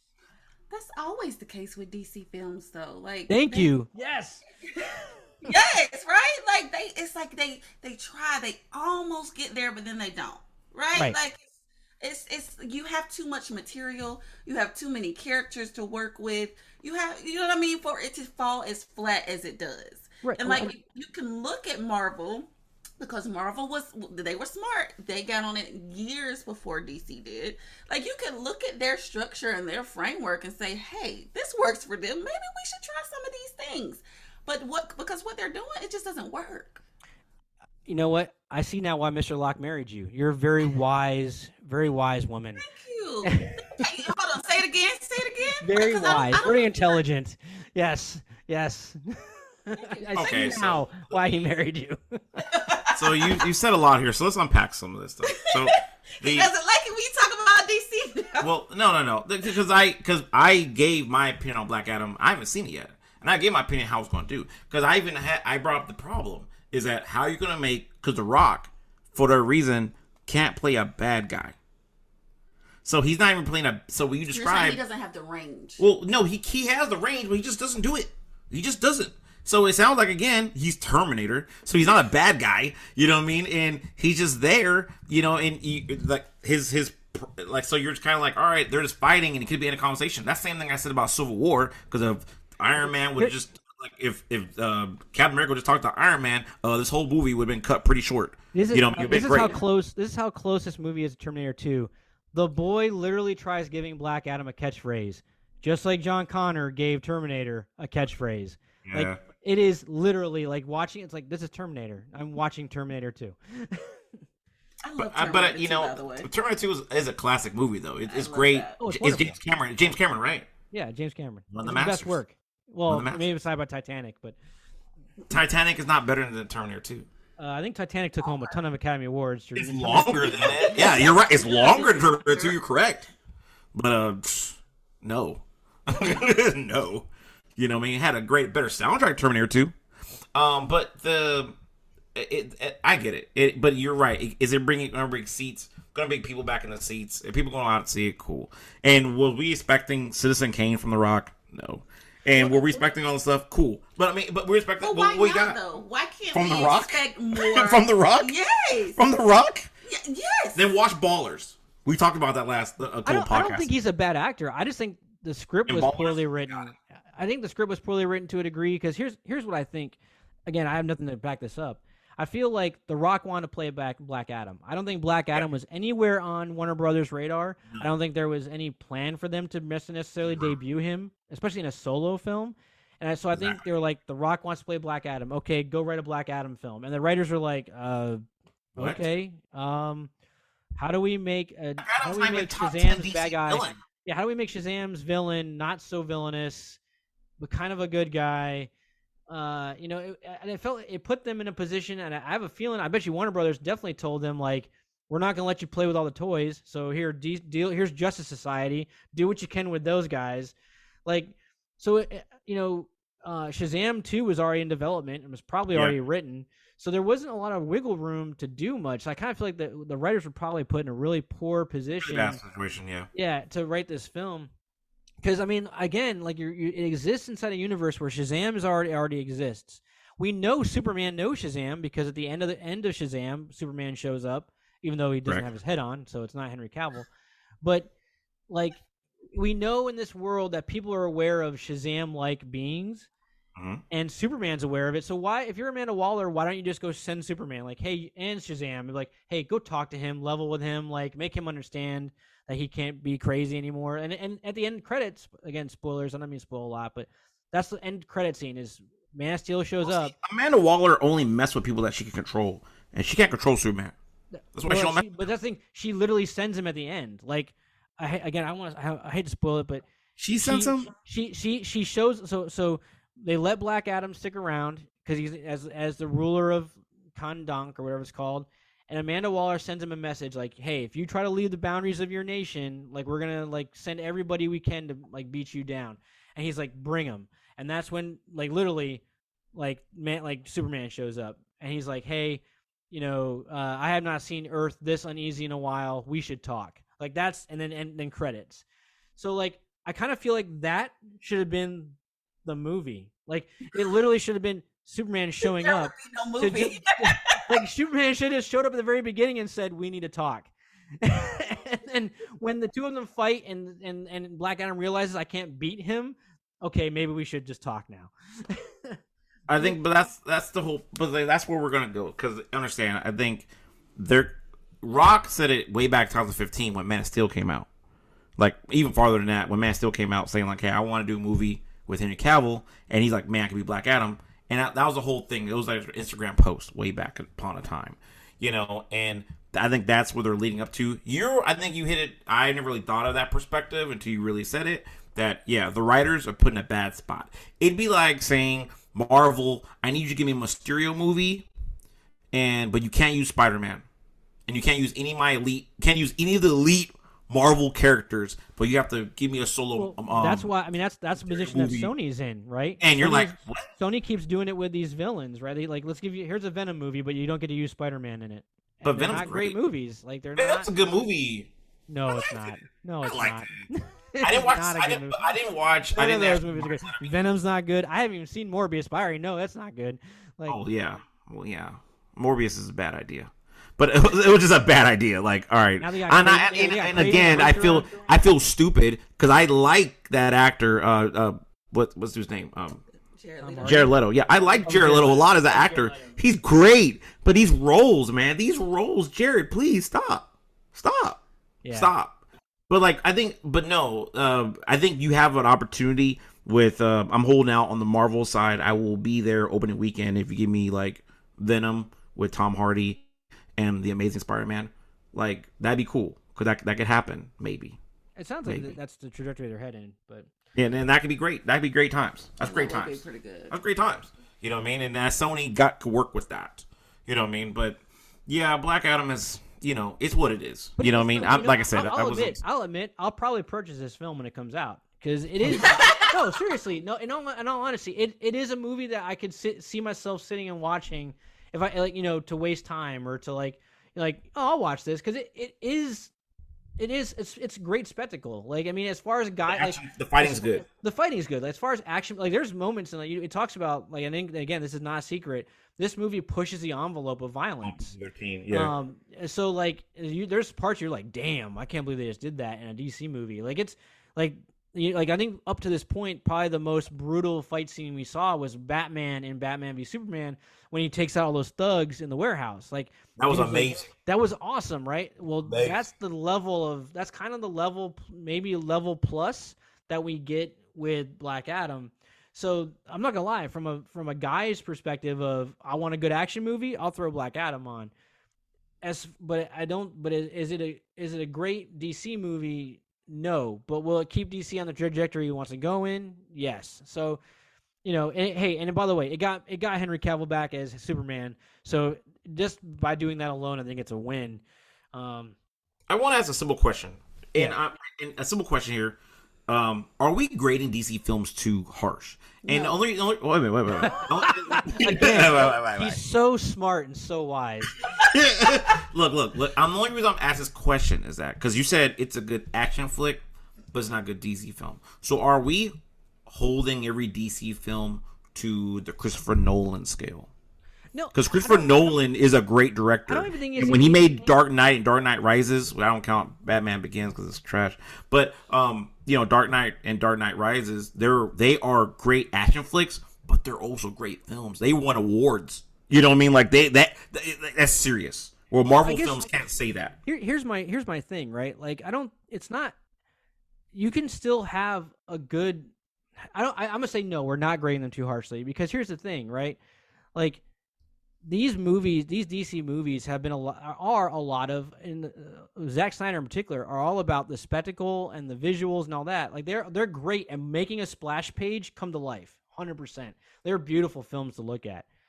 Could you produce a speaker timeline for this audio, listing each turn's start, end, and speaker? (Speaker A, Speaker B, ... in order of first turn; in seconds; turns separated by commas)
Speaker A: 0.7-3.7, Speaker B: 3.3-5.5, Speaker A: 5.4-11.4, Speaker A: 12.0-36.8, Speaker B: 20.2-20.7, Speaker B: 37.9-42.6, Speaker A: 42.6-47.0, Speaker B: 43.2-43.9, Speaker B: 45.6-52.4, Speaker A: 49.8-50.2, Speaker C: 50.1-51.0, Speaker A: 52.5-53.5, Speaker C: 52.9-56.5, Speaker A: 55.3-58.5, Speaker C: 58.4-71.5, Speaker C: 72.8-74.8, Speaker A: 74.3-75.8, Speaker C: 75.8-99.6, Speaker B: 98.5-114.0, Speaker C: 108.8-109.2, Speaker A: 114.8-116.3, Speaker C: 115.0-120.5, Speaker A: 118.0-118.8, Speaker B: 118.8-119.3, Speaker B: 120.7-124.4, Speaker C: 121.5-122.2, Speaker C: 122.9-123.2, Speaker C: 125.3-127.1, Speaker B: 127.4-130.7, Speaker C: 129.6-133.1, Speaker A: 130.5-132.6, Speaker C: 133.7-139.7, Speaker C: 140.3-141.6, Speaker C: 142.1-155.6, Speaker A: 152.3-152.9, Speaker A: 154.8-159.0, Speaker C: 156.3-158.3, Speaker C: 158.9-159.7, Speaker A: 159.8-160.6, Speaker C: 160.5-163.7, Speaker B: 163.0-188.2, Speaker C: 165.7-166.7, Speaker C: 183.3-183.6, Speaker B: 188.7-190.1, Speaker C: 188.8-189.0, Speaker B: 190.8-196.8, Speaker C: 191.8-193.8, Speaker B: 197.4-198.7, Speaker B: 199.3-210.5, Speaker B: 211.1-222.4, Speaker C: 222.0-223.1, Speaker B: 223.1-224.5, Speaker B: 225.2-237.1, Speaker B: 237.6-237.9, Speaker B: 238.5-243.1, Speaker C: 243.6-243.8, Speaker B: 243.9-260.1, Speaker C: 259.8-263.9, Speaker B: 264.4-289.0, Speaker C: 264.5-265.3, Speaker C: 270.2-270.9, Speaker B: 289.5-298.6, Speaker B: 299.2-319.0, Speaker A: 305.4-307.5, Speaker C: 319.5-327.7, Speaker C: 328.4-351.5, Speaker C: 352.3-353.8, Speaker C: 354.5-360.5, Speaker B: 359.7-370.7, Speaker C: 361.2-361.9, Speaker C: 362.8-363.7, Speaker C: 368.8-369.6, Speaker C: 370.4-371.5, Speaker B: 371.9-375.4, Speaker C: 372.1-373.6, Speaker C: 374.2-377.1, Speaker B: 375.9-380.6, Speaker C: 380.5-392.8, Speaker B: 385.8-388.1, Speaker A: 393.2-393.9, Speaker B: 393.4-393.9, Speaker C: 393.6-413.0, Speaker B: 394.6-396.1, Speaker B: 401.6-401.9, Speaker C: 413.6-417.8, Speaker B: 418.2-420.3, Speaker C: 418.4-418.7, Speaker C: 420.5-432.4, Speaker A: 422.4-423.5, Speaker B: 430.8-446.1, Speaker C: 435.4-435.8, Speaker A: 435.6-436.1, Speaker B: 446.8-457.9, Speaker C: 449.5-450.6, Speaker C: 457.6-458.7, Speaker B: 458.5-487.9, Speaker C: 473.2-473.9, Speaker C: 475.4-475.9, Speaker B: 488.8-497.2, Speaker B: 497.8-504.4, Speaker B: 504.9-505.4, Speaker C: 505.9-509.0, Speaker C: 509.5-516.0, Speaker A: 512.4-512.8, Speaker B: 513.8-517.9, Speaker C: 517.9-523.2, Speaker A: 518.0-518.7, Speaker C: 523.7-525.7, Speaker C: 526.3-530.3, Speaker B: 530.9-532.0, Speaker C: 531.1-550.0, Speaker B: 533.1-534.3, Speaker B: 548.7-549.3, Speaker B: 550.0-552.8, Speaker B: 553.7-555.7, Speaker B: 556.3-559.6, Speaker B: 560.1-560.4, Speaker B: 561.2-574.9